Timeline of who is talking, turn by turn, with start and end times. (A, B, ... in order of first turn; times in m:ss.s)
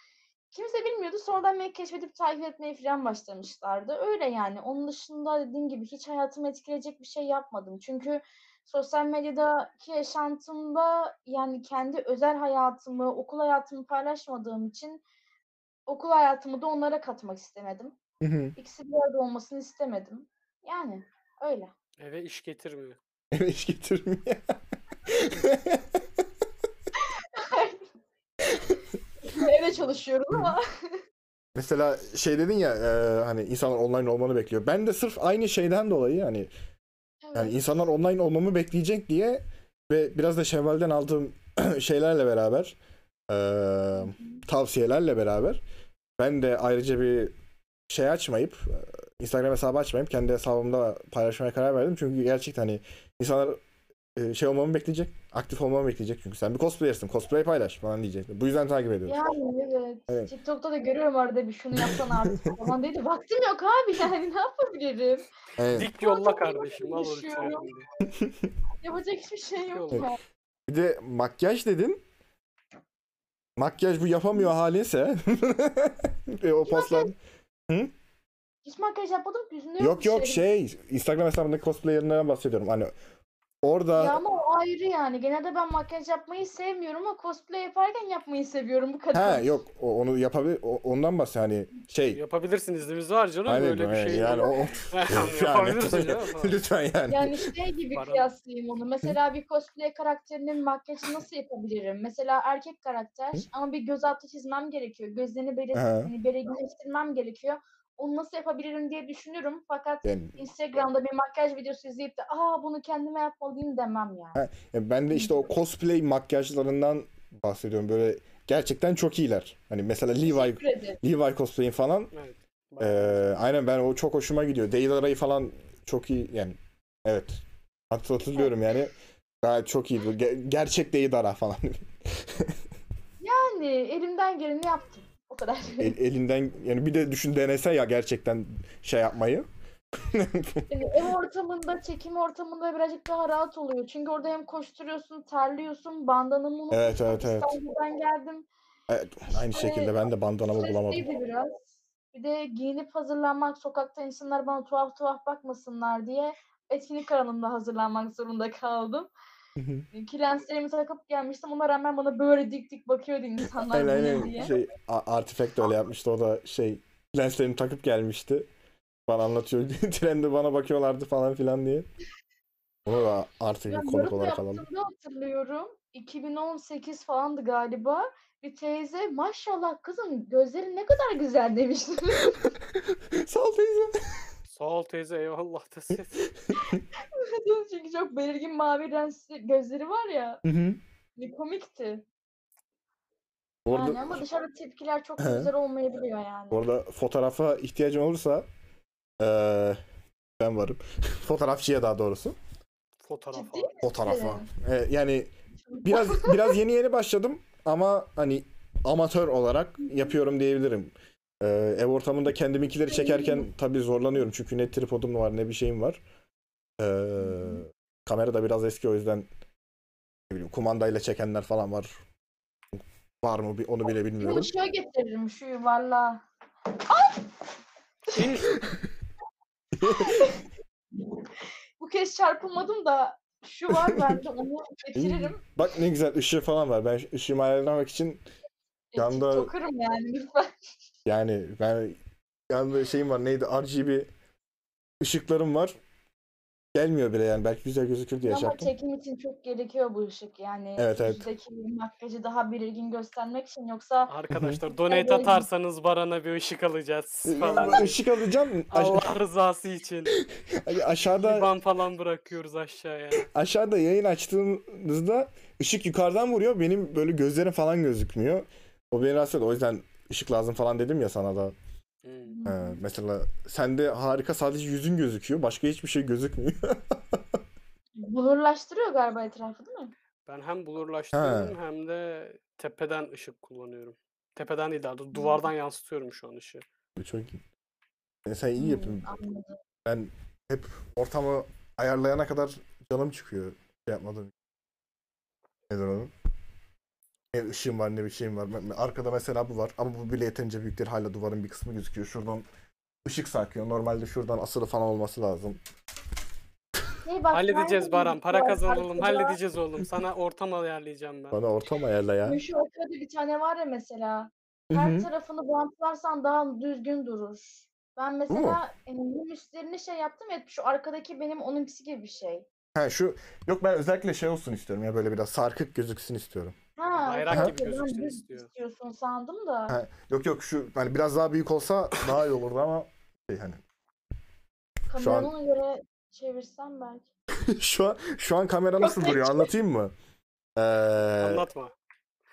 0:00.5-0:15.0 A
0:15.9-0:18.0 A
0:18.2-0:18.6 B
0:18.6-0:21.7 A
0:22.0-0:23.0 C
0:23.3-0:26.2 B
0:27.0-0:27.9 A
0:28.5-0:28.8 B
0:29.2-0:31.0 A
0:31.6-0:36.5 B
0:37.2-0:37.6 A
0:37.3-0:42.8 B
0:43.3-0:45.6 B
0:44.0-0:44.4 A
0:46.2-0:47.3 B
0:47.9-0:53.6 B
0:54.2-0:59.2 B
0:59.0-1:05.2 A
1:01.8-1:02.7 B
1:05.6-1:05.9 B
1:05.7-1:07.9 C
1:05.8-1:07.7 A
1:08.1-1:08.5 B
1:08.8-1:10.2 A
1:09.7-1:10.1 C
1:10.7-1:12.0 B
1:13.6-1:17.2 B
1:16.6-1:17.1 A
1:17.7-1:17.9 B
1:18.6-1:20.4 A
1:19.8-1:22.9 B
1:23.6-1:24.2 B
1:24.0-1:29.6 A
1:29.1-1:32.2 B
1:32.1-1:36.6 C
1:33.5-1:37.5 B
1:34.1-1:34.7 A
1:37.1-1:54.4 A
1:37.9-1:38.3 C
1:45.7-1:46.1 B
1:50.0-1:50.4 B
1:54.4-2:02.1 B
1:55.1-1:55.5 A
2:00.2-2:01.0 A
2:02.1-2:03.3 C
2:02.8-2:12.6 B
2:13.2-2:16.0 A
2:15.8-2:19.5 B
2:20.0-2:20.7 B
2:20.7-2:28.5 A
2:26.7-2:27.6 B
2:28.9-2:31.1 B
2:29.3-2:30.0 A
2:30.6-2:39.1 A
2:39.6-2:39.9 B
2:39.9-2:44.5 A
2:43.6-2:48.5 B
2:49.1-2:51.9 B
2:52.9-2:54.6 B
2:53.7-3:02.5 A
3:02.4-3:04.3 B
3:04.5-3:06.3 C
3:06.2-3:06.8 B
3:06.6-3:10.4 A
3:10.4-3:10.8 B
3:11.2-3:12.0 A
3:13.6-3:14.2 B
3:13.7-3:16.6 A
3:15.2-3:15.5 B
3:16.5-3:18.5 B
3:19.2-3:19.8 B
3:20.4-3:22.4 B
3:23.0-3:23.7 C
3:23.3-3:24.5 A
3:23.8-3:25.3 B
3:25.7-3:26.6 A
3:25.8-3:36.0 B
3:32.9-3:33.5 A
3:36.8-3:39.3 B
3:37.2-3:37.6 A
3:40.3-3:41.9 B
3:42.8-3:44.5 B
3:44.2-3:46.2 A
3:46.8-3:47.3 A
3:48.1-3:48.6 C
3:49.8-3:50.3 B
3:49.8-3:50.4 A
3:51.8-3:55.4 A
3:53.7-3:54.2 B
3:55.0-3:58.2 B
3:58.9-4:00.5 A
3:59.0-3:59.5 B
4:01.1-4:02.0 B
4:02.5-4:04.1 B
4:05.0-4:05.8 B
4:06.8-4:08.7 B
4:08.2-4:14.1 A
4:10.8-4:11.3 B
4:14.1-4:18.0 C
4:14.3-4:14.6 B
4:14.9-4:15.5 A
4:17.3-4:19.1 B
4:17.5-4:17.9 A
4:18.7-4:20.2 C
4:20.4-4:21.5 B
4:21.2-4:23.3 C
4:23.2-4:31.5 B
4:32.0-4:32.4 C
4:32.3-4:32.8 A
4:32.5-4:37.4 B
4:38.0-4:39.9 A
4:40.3-4:46.6 C
4:41.1-4:41.6 B
4:45.1-4:45.5 A
4:47.0-4:47.4 B
4:48.2-4:49.1 B
4:48.6-4:49.6 A
4:49.8-4:54.3 B
4:55.7-4:56.1 B
4:57.3-5:02.5 B
5:03.0-5:05.6 B
5:07.0-5:09.4 A
5:07.3-5:11.4 C
5:11.3-5:12.4 B
5:12.2-5:22.5 A
5:14.7-5:15.1 B
5:18.3-5:18.6 B
5:22.8-5:26.6 B
5:26.8-5:29.8 A
5:27.0-5:28.5 C
5:27.3-5:27.5 B
5:29.7-5:33.6 B
5:34.9-5:37.1 A
5:35.0-5:35.3 B
5:37.4-5:39.9 B
5:38.8-5:39.5 A
5:40.6-5:41.5 B
5:41.2-5:41.7 C